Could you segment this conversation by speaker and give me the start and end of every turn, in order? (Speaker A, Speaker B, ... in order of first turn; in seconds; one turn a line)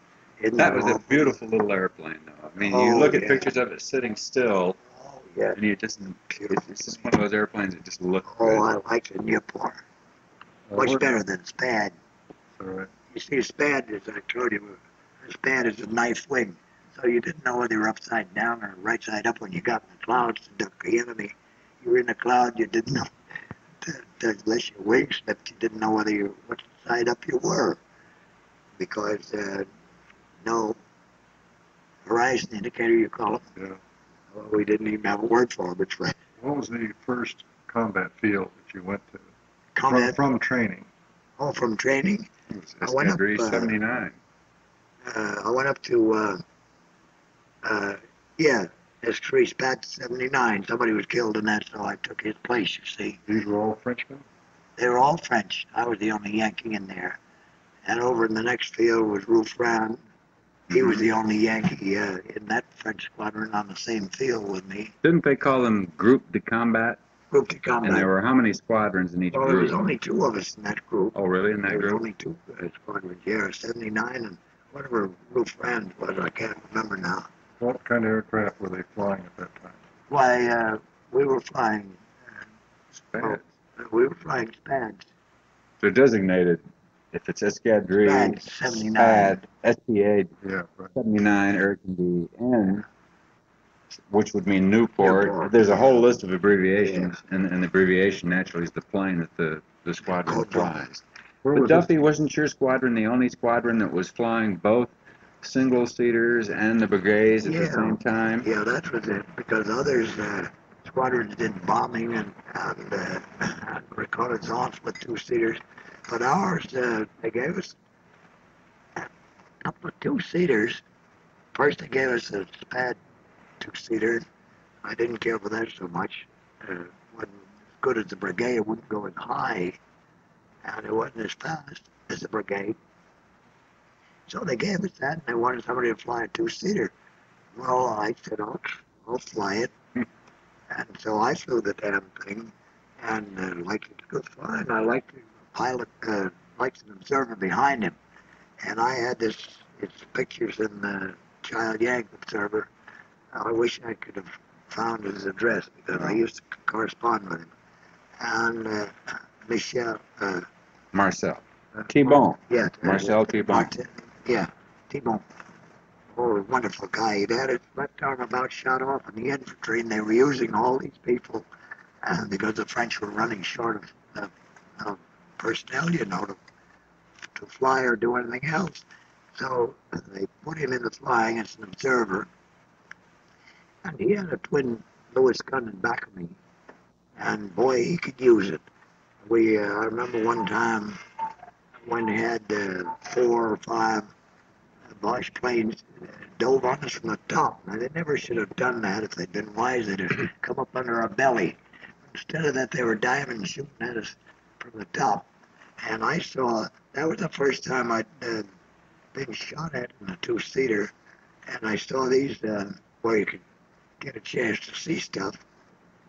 Speaker A: 0.4-1.4
Speaker B: 0.6-4.8
Speaker A: 2.6-3.5
Speaker A: 4.9-5.6
Speaker B: 5.6-8.7
Speaker A: 6.3-7.1
Speaker A: 8.3-9.8
Speaker C: 10.7-11.1
Speaker A: 10.8-11.9
Speaker C: 12.6-12.9
Speaker A: 13.1-23.1
Speaker A: 23.8-27.8
Speaker A: 28.8-29.7
Speaker A: 30.4-30.8
Speaker A: 32.1-33.5
Speaker A: 34.3-36.2
Speaker C: 36.4-39.3
Speaker A: 39.8-40.2
Speaker C: 39.9-40.9
Speaker A: 41.4-42.3
Speaker B: 42.5-44.1
Speaker A: 42.8-43.7
Speaker A: 45.1-46.4
Speaker A: 47.6-53.2
Speaker C: 53.3-54.2
Speaker A: 54.8-57.2
Speaker A: 57.9-60.0
Speaker A: 60.7-64.9
Speaker B: 65.0-67.0
Speaker A: 67.3-68.1
Speaker B: 67.8-69.8
Speaker A: 69.3-71.2
Speaker B: 71.2-72.0
Speaker A: 71.7-77.3
Speaker C: 77.6-79.8
Speaker A: 80.1-82.0
Speaker B: 83.1-83.4
Speaker A: 83.2-85.0
Speaker B: 85.8-90.3
Speaker A: 88.0-89.4
Speaker C: 90.4-91.0
Speaker B: 91.0-92.9
Speaker B: 94.1-108.5
Speaker A: 95.0-96.0
Speaker A: 96.8-97.2
Speaker A: 100.2-100.8
Speaker C: 101.4-102.0
Speaker A: 107.4-117.8
Speaker A: 119.7-120.8
Speaker A: 121.5-123.0
Speaker A: 123.6-124.3
Speaker A: 124.8-129.8
Speaker A: 130.6-132.8
Speaker A: 134.3-136.9
Speaker A: 137.6-139.7
Speaker A: 140.7-148.0
Speaker A: 148.6-152.7
Speaker A: 153.3-157.5
Speaker A: 158.2-160.5
Speaker B: 160.9-163.7
Speaker A: 161.8-165.2
Speaker A: 166.2-171.5
Speaker A: 172.0-176.4
Speaker A: 177.4-182.3
Speaker A: 183.8-186.4
Speaker A: 187.2-188.6
Speaker A: 189.2-191.0
Speaker A: 191.9-194.1
Speaker A: 195.0-201.6
Speaker A: 202.1-205.3
Speaker A: 205.8-208.5
Speaker A: 209.1-210.9
Speaker A: 211.5-213.4
Speaker A: 214.0-215.4